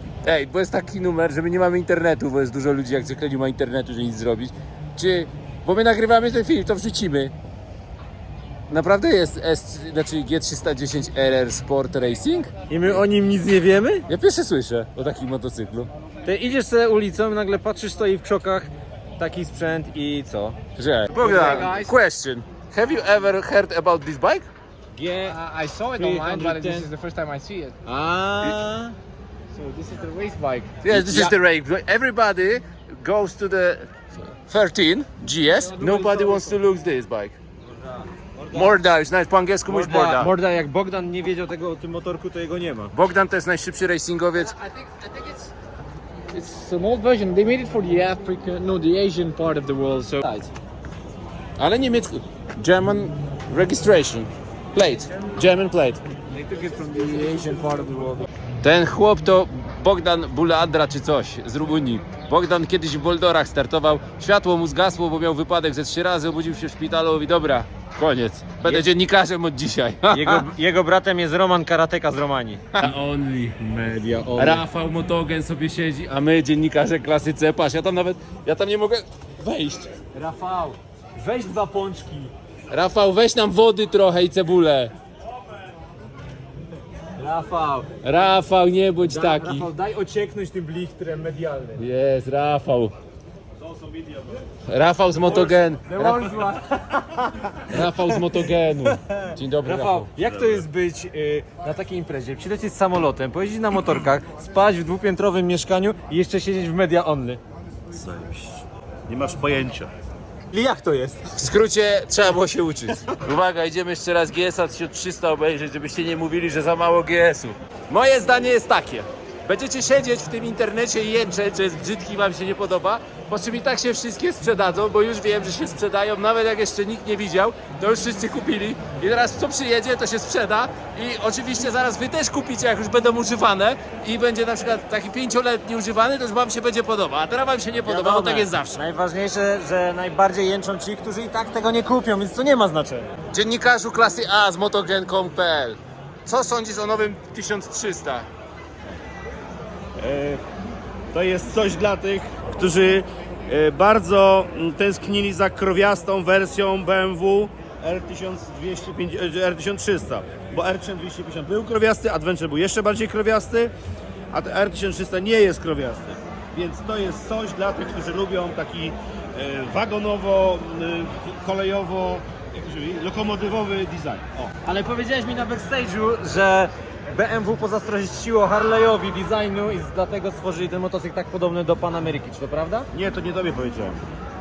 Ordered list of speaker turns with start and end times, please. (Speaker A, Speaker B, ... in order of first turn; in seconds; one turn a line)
Speaker A: 0.2-7.3
Speaker A: 8.7-13.0
Speaker B: 12.7-14.1
Speaker A: 14.1-15.9
Speaker B: 16.2-20.6
Speaker A: 20.8-24.5
Speaker C: 21.2-21.9
Speaker B: 21.3-21.8
Speaker B: 24.9-26.9
Speaker C: 25.3-27.8
Speaker B: 27.9-28.9
Speaker C: 29.6-30.8
Speaker A: 30.8-37.4
Speaker B: 30.9-31.3
Speaker C: 35.6-36.5
Speaker B: 37.8-38.8
Speaker A: 38.5-40.3
Speaker B: 39.7-42.9
Speaker A: 42.9-44.6
Speaker C: 44.6-45.5
Speaker C: 46.3-50.2
Speaker B: 50.2-50.5
Speaker A: 51.6-56.0
Speaker C: 56.4-58.3
Speaker A: 58.6-70.5
Speaker B: 70.1-72.9
Speaker A: 72.7-73.6
Speaker B: 73.6-74.6
Speaker A: 74.4-79.9
Speaker B: 80.1-82.3
Speaker A: 82.7-84.9
Speaker B: 87.2-87.9
Speaker A: 88.0-89.7
Speaker B: 89.0-91.8
Speaker A: 91.8-92.9
Speaker A: 94.7-96.4
Speaker B: 95.2-97.8
Speaker A: 97.7-100.6
Speaker B: 99.6-107.4
Speaker A: 107.9-108.4
Speaker A: 109.1-109.9
Speaker B: 110.5-111.3
Speaker A: 111.3-138.8
Speaker B: 137.8-143.1
Speaker A: 143.3-148.3
Speaker D: 150.0-150.4
Speaker D: 151.1-163.7
Speaker D: 164.3-174.4
Speaker A: 173.1-174.2
Speaker B: 174.6-182.9
Speaker D: 182.9-183.8